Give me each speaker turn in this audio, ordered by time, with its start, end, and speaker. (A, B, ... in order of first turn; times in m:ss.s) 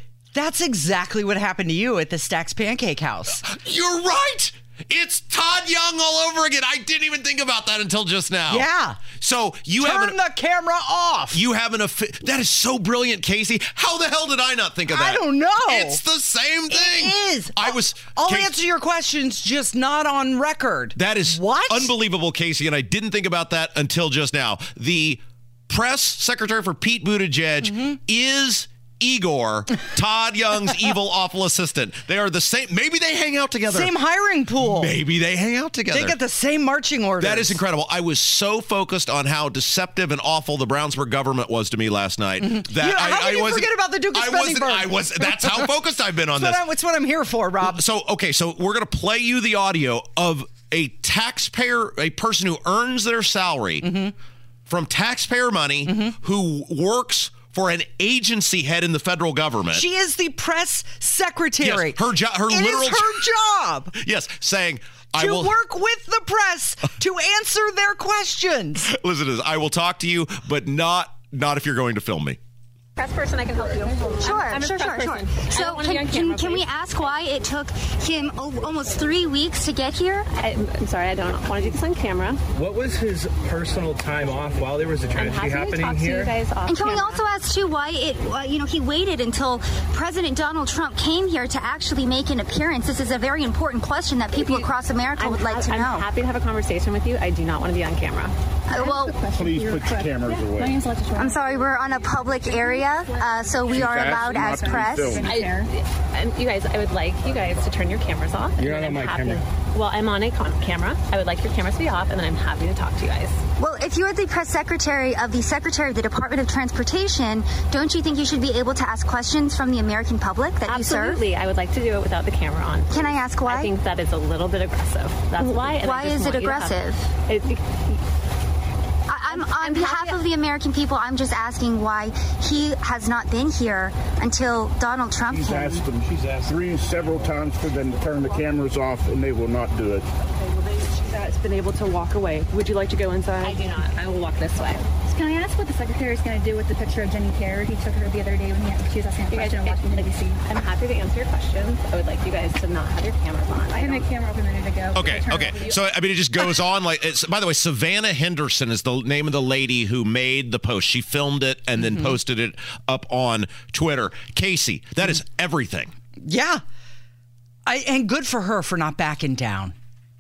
0:00.3-0:03.4 A
0:03.4-0:08.7 B
0:08.5-0:09.0 A
0:09.2-0:10.2 B
0:09.8-0:11.4 A
0:11.3-0:18.6 B
0:14.9-0:16.0 A
0:16.7-0:21.9 A
0:21.0-0:33.9 B
0:27.6-0:27.9 A
0:33.7-0:34.9 A
0:34.6-0:36.2 B
0:35.9-0:37.6 A
0:37.2-0:46.6 B
0:42.4-0:45.7 A
0:46.3-0:47.8 A
0:47.6-0:53.9 B
0:53.8-0:54.1 A
0:54.7-0:59.9 B
0:55.9-0:56.2 A
0:59.7-1:04.0 A
1:01.6-1:03.3 B
1:03.9-1:05.6 B
1:05.2-1:08.9 A
1:08.8-1:12.4 B
1:13.0-1:16.7 C
1:14.2-1:20.3 D
1:20.4-1:22.4 C
1:22.6-1:26.3 E
1:25.1-1:27.2 C
1:26.7-1:36.1 D
1:34.4-1:38.3 C
1:38.7-1:39.2 D
1:38.7-1:45.7 F
1:39.3-1:40.8 G
1:41.2-1:45.2 D
1:43.7-1:45.3 G
1:45.2-1:53.4 C
1:48.6-1:49.4 E
1:53.6-2:01.2 D
2:00.7-2:08.0 C
2:02.9-2:03.7 D
2:05.4-2:07.1 D
2:09.1-2:15.8 D
2:09.3-2:10.2 C
2:15.3-2:20.1 G
2:16.1-2:16.6 E
2:21.0-2:23.6 H
2:23.4-2:24.9 C
2:25.0-2:30.4 F
2:29.3-2:34.0 C
2:33.7-2:35.7 F
2:34.9-2:45.9 B
2:41.8-2:42.1 A
2:46.2-2:46.6 A
2:47.7-2:49.8 A